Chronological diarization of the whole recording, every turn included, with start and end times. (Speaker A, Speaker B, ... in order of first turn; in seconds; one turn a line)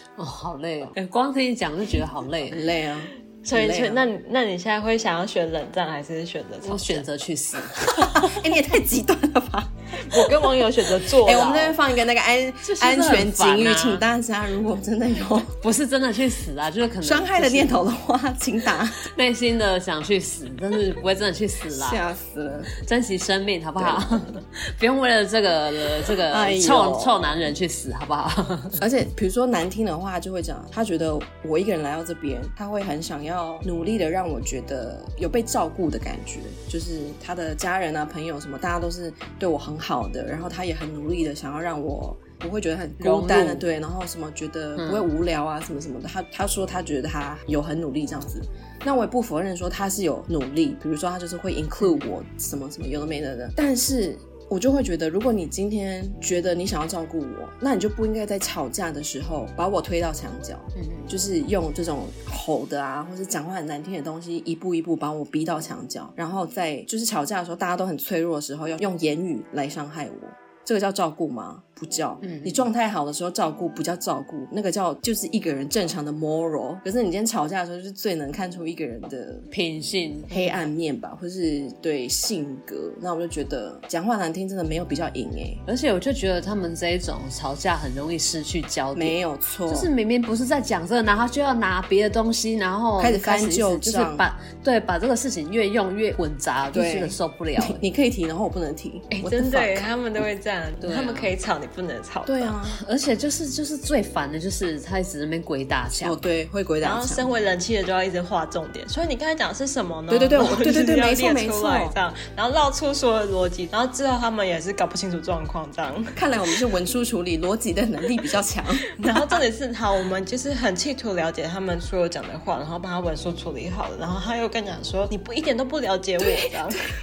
Speaker A: 0.2-2.6
Speaker B: 2.5-4.1
Speaker C: 3.4-7.1
Speaker A: 6.6-8.3
Speaker B: 8.0-10.3
Speaker C: 9.9-11.8
Speaker B: 11.2-15.5
Speaker A: 12.6-14.1
Speaker A: 15.5-17.9
Speaker B: 17.0-19.1
Speaker A: 19.0-22.0
Speaker B: 21.7-22.7
Speaker A: 22.7-28.8
Speaker B: 23.8-24.3
Speaker B: 26.3-27.4
Speaker B: 28.8-79.5
Speaker A: 43.0-43.7
Speaker A: 44.8-45.1
Speaker A: 51.8-52.0
Speaker A: 60.8-61.1
Speaker A: 72.2-72.7
Speaker A: 79.5-80.6
Speaker B: 80.3-85.6
Speaker A: 85.7-89.2
Speaker B: 89.0-89.9
Speaker A: 89.7-97.8
Speaker B: 93.0-94.3
Speaker B: 96.7-99.9
Speaker C: 99.1-102.5
Speaker A: 100.8-101.3
Speaker B: 102.3-102.8
Speaker A: 102.7-106.2
Speaker B: 106.0-107.3
Speaker C: 106.8-116.2
Speaker B: 110.1-112.0
Speaker B: 116.2-119.3
Speaker C: 119.0-126.8